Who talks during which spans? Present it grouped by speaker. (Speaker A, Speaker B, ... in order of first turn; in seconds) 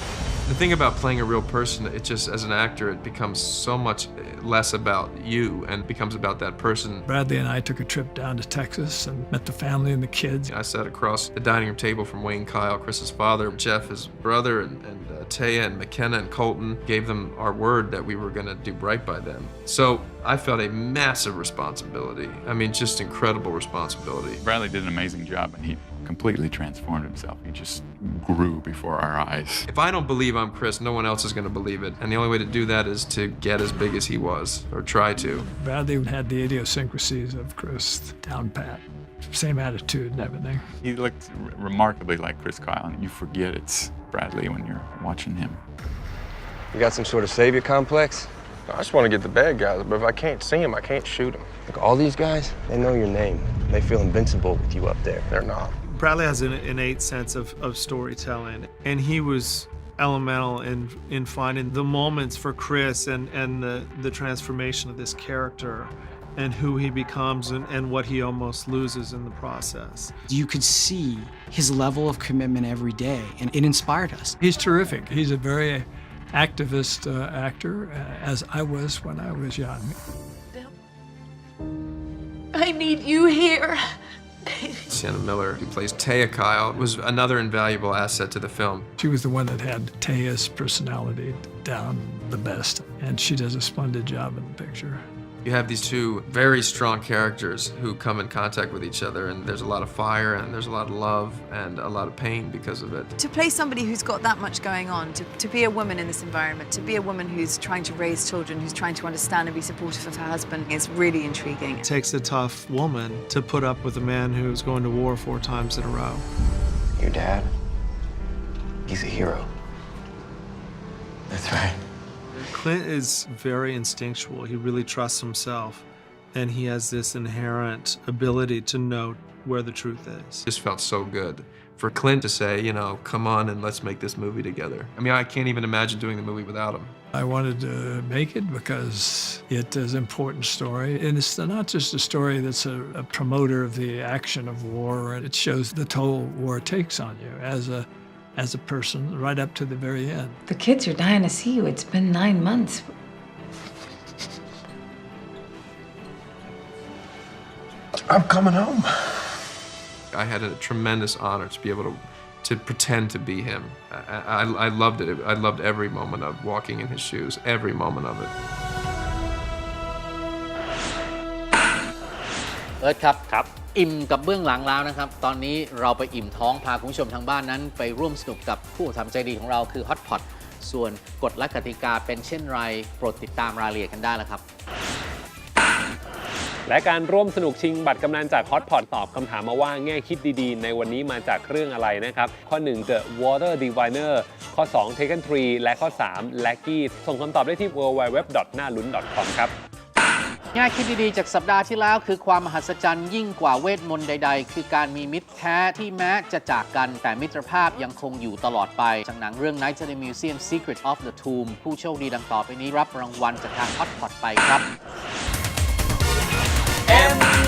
Speaker A: 0.5-7.1, 10.5-24.4, 29.7-35.5, 84.9-88.9, 95.4-103.1, 130.5-137.0, 160.1-168.3
Speaker B: 7.1-10.5, 35.5-40.6, 74.4-80.0, 89.0-95.0, 137.1-150.4
Speaker C: 24.4-29.7, 40.8-45.6
Speaker D: 46.7-55.7, 117.0-117.5, 118.9-119.5, 121.3-121.7, 158.1-159.2
Speaker E: 55.9-70.1, 111.8-116.2, 122.5-130.4
Speaker F: 70.3-74.4
Speaker G: 82.5-83.8, 103.2-111.8
Speaker H: 150.5-152.7
Speaker I: 172.8-184.4, 200.5-214.7
Speaker J: 186.7-199.5